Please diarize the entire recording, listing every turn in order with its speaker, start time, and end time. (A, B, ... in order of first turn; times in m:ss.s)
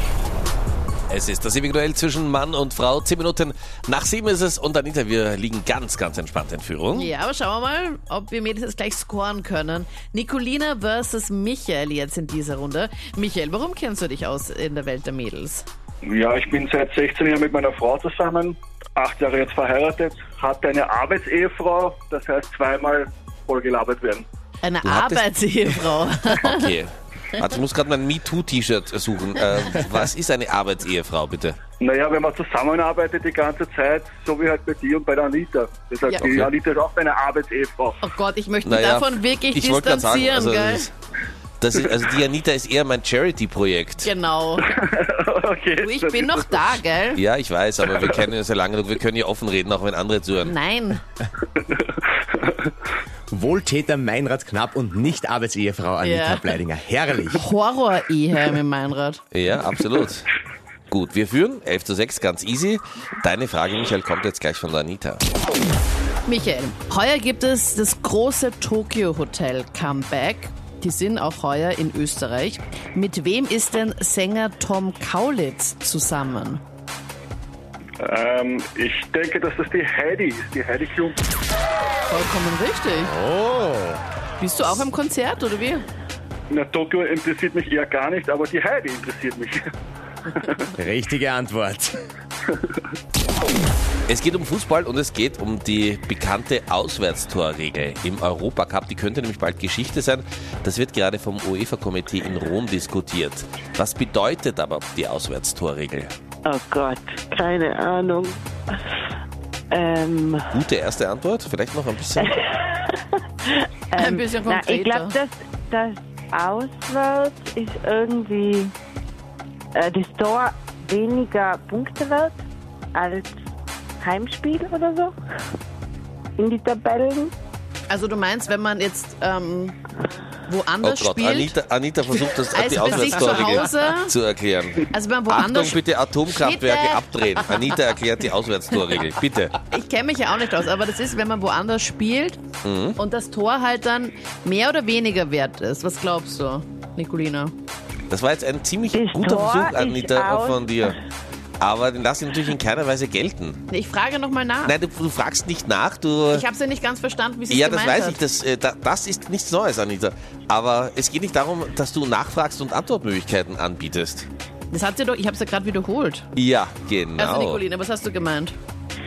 0:01.1-0:07.1 A
0:06.9-0:15.6 B
0:16.0-0:24.2 C
0:24.6-0:26.7 B
0:24.8-0:25.2 A
0:26.4-0:31.6 A
0:31.8-0:38.0 C
0:38.0-0:40.9 B
0:38.6-0:40.9 A
0:41.6-0:44.1 A
0:44.0-0:44.8 B
0:44.6-0:46.6 C
0:45.8-0:47.2 B
0:47.2-0:50.5 A
0:47.9-0:48.2 C
0:50.4-0:51.0 B
0:51.7-0:52.6 C
0:53.3-0:57.4 D
0:56.0-0:56.5 B
0:57.4-0:59.2 B
0:59.3-1:00.3 A
1:00.9-1:05.2 A
1:06.2-1:16.6 B
1:18.0-1:21.2 C
1:22.1-1:23.1 B
1:23.0-1:24.0 D
1:24.4-1:25.8 B
1:26.5-1:29.7 C
1:30.4-1:30.6 C
1:30.8-1:32.0 D
1:32.5-1:32.8 C
1:34.1-1:46.1 A
1:46.4-1:48.4 E
1:49.7-1:50.5 E
1:50.5-1:52.3 A
1:52.2-1:58.7 E
1:54.0-1:55.2 B
1:59.7-2:02.4 E
2:02.9-2:03.3 E
2:04.0-2:05.2 E
2:06.4-2:07.3 E
2:07.9-2:09.8 B
2:10.4-2:11.6 B
2:10.8-2:19.6 A
2:12.2-2:14.1 B
2:14.9-2:17.8 B
2:19.7-2:22.4 B
2:22.6-2:23.0 A
2:23.0-2:27.5 B
2:28.1-2:31.0 A
2:28.9-2:31.0 E
2:31.6-2:33.6 A
2:33.7-2:34.8 B
2:34.6-2:36.4 A
2:36.3-2:38.2 B
2:37.5-2:44.3 A
2:44.7-2:46.3 B
2:46.4-2:47.6 A
2:47.2-2:48.5 B